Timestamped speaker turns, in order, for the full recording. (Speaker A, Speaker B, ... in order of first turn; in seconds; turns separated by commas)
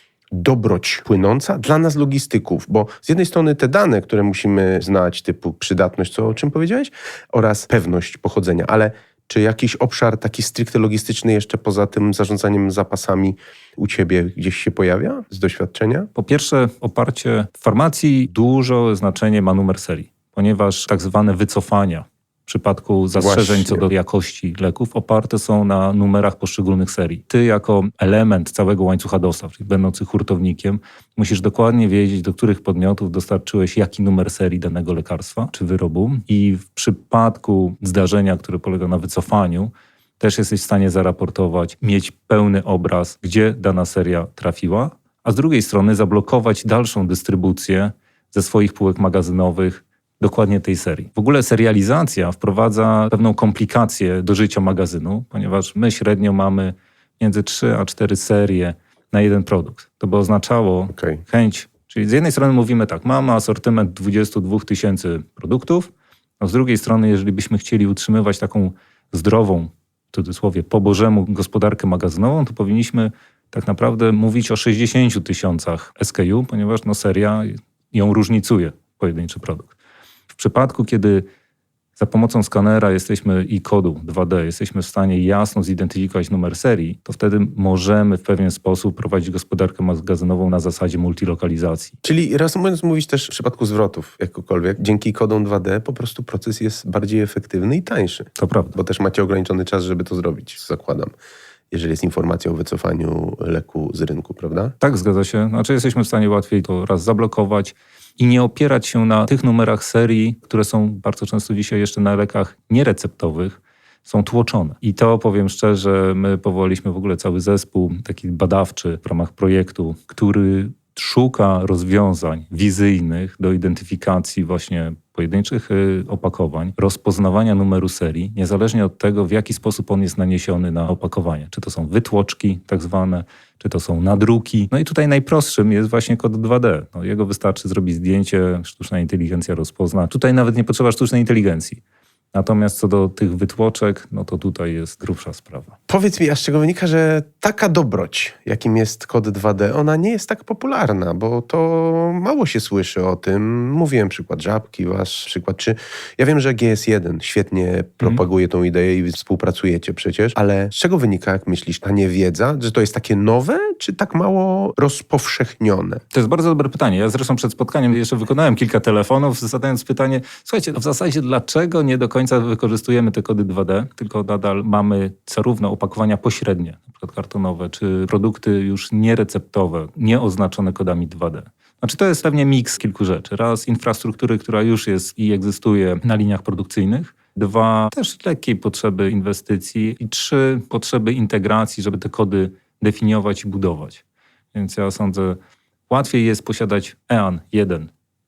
Speaker A: 0.3-16.1, Speaker B: 16.1-79.7, Speaker A: 23.1-23.9, Speaker A: 60.9-61.2, Speaker B: 80.3-81.2, Speaker B: 82.0-92.0, Speaker A: 92.0-101.1, Speaker B: 98.3-98.8, Speaker A: 101.7-104.7, Speaker B: 104.8-141.8, Speaker B: 142.3-145.8, Speaker A: 145.9-166.0, Speaker B: 166.1-195.4, Speaker B: 195.9-197.9